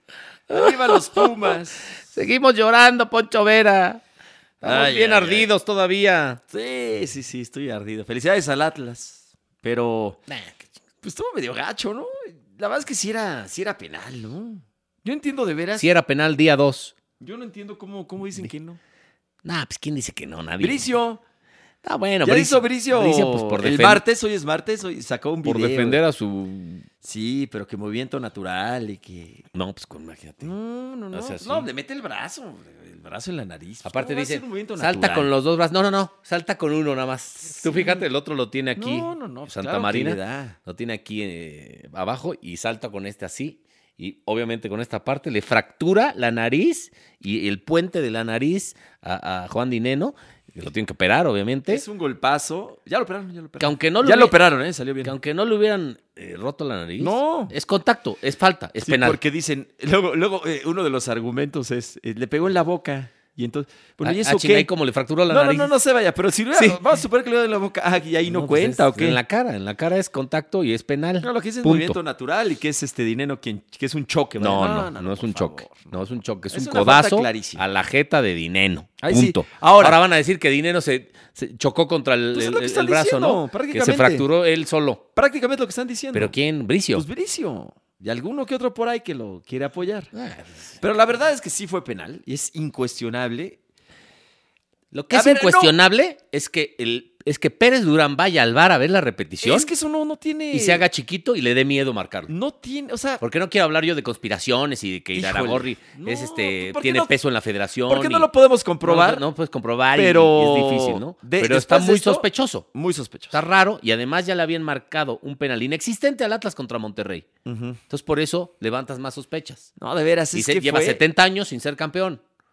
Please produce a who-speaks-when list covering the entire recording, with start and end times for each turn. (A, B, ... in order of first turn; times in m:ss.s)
0:00.5-0:04.0 A
0:00.5-0:01.9 B
0:04.6-0:05.5 B
0:04.6-0:06.4 A
0:06.5-0:10.2 B
0:10.3-0:10.7 A
0:11.0-0:15.9 B
0:15.8-0:16.9 A
0:17.2-0:18.8 B
0:19.4-0:20.8 A
0:20.6-0:21.2 B
0:21.8-0:24.0 A
0:22.2-0:26.0 B
0:25.4-0:26.9 A
0:27.0-0:29.4 B
0:29.5-0:30.5 A
0:30.4-0:35.3 B
0:31.1-0:31.7 A
0:33.8-0:51.8 A
0:37.6-0:38.0 B
0:38.8-0:40.6 B
0:51.7-0:55.1 B
0:53.6-0:54.4 A
0:55.0-0:59.2 A
0:57.0-0:57.5 B
0:58.8-1:04.7 B
1:04.0-1:05.7 A
1:05.3-1:09.2 B
1:06.5-1:07.0 A
1:08.2-1:12.0 A
1:11.2-1:16.0 B
1:14.4-1:25.0 A
1:16.5-1:17.6 B
1:19.0-1:20.0 B
1:22.3-1:24.2 B
1:25.2-1:26.3 B
1:26.1-1:27.0 A
1:26.9-1:30.1 B
1:30.1-1:30.8 A
1:30.8-1:33.6 B
1:34.9-1:39.7 A
1:35.1-1:35.8 B
1:39.4-1:40.8 B
1:40.5-1:42.3 A
1:42.3-1:43.2 B
1:43.2-1:48.3 A
1:45.1-1:47.1 B
1:47.9-1:49.3 B
1:48.8-1:52.6 A
1:49.9-1:53.4 B
1:53.3-1:57.3 A
1:57.4-1:57.8 B
1:57.9-1:59.7 A
1:59.8-2:01.0 B
2:00.3-2:02.2 A